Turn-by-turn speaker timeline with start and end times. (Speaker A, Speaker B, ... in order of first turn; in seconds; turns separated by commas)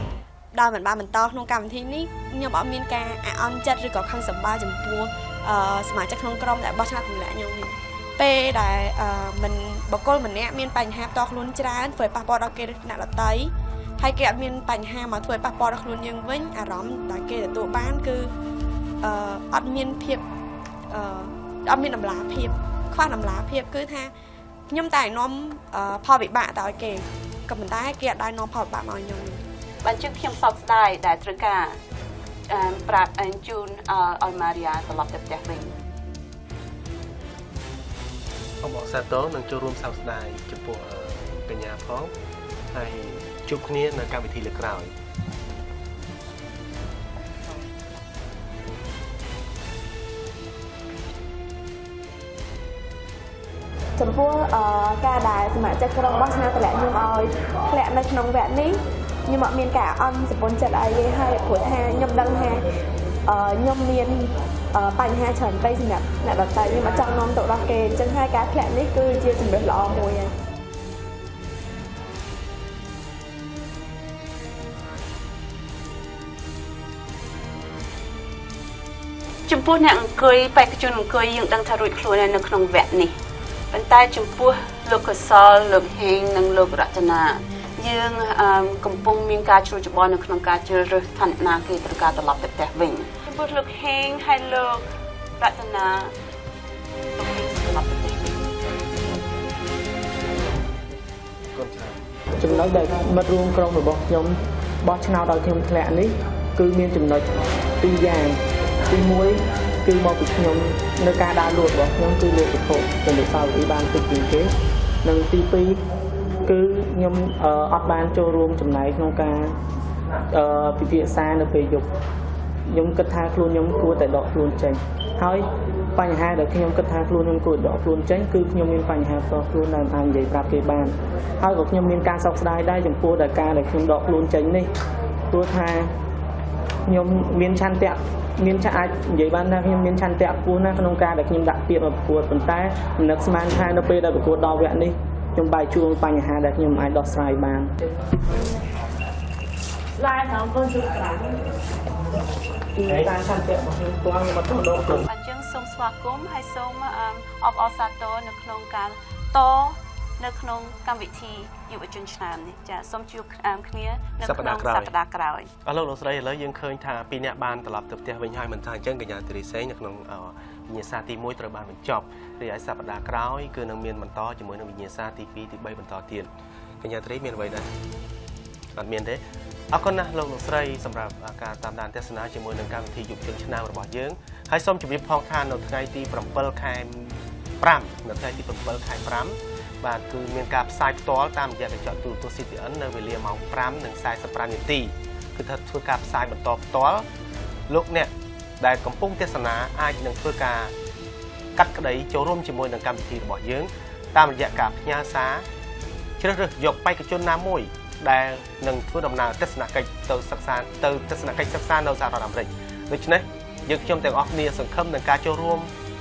Speaker A: 0.5-18.3, Speaker A: 19.0-20.2, Speaker A: 20.9-24.1, Speaker A: 24.7-29.4, Speaker B: 29.8-31.8, Speaker B: 32.5-35.7, Speaker C: 38.6-42.1, Speaker C: 42.7-44.9, Speaker A: 54.0-62.7, Speaker A: 63.2-70.3, Speaker B: 79.5-83.1, Speaker B: 83.7-94.9, Speaker B: 95.4-96.1, Speaker B: 97.1-98.5, Speaker C: 101.5-102.0, Speaker D: 102.4-108.4, Speaker D: 108.9-114.5, Speaker D: 115.0-115.8, Speaker D: 116.5-119.5, Speaker D: 120.3-121.9, Speaker D: 122.7-134.7, Speaker D: 135.3-135.9, Speaker D: 136.9-147.7, Speaker D: 152.7-155.0, Speaker B: 155.1-165.5, Speaker C: 164.2-164.9, Speaker C: 165.6-176.3, Speaker C: 176.8-177.7, Speaker C: 178.7-197.1, Speaker C: 197.7-200.7, Speaker C: 201.6-205.5, Speaker C: 206.2-215.7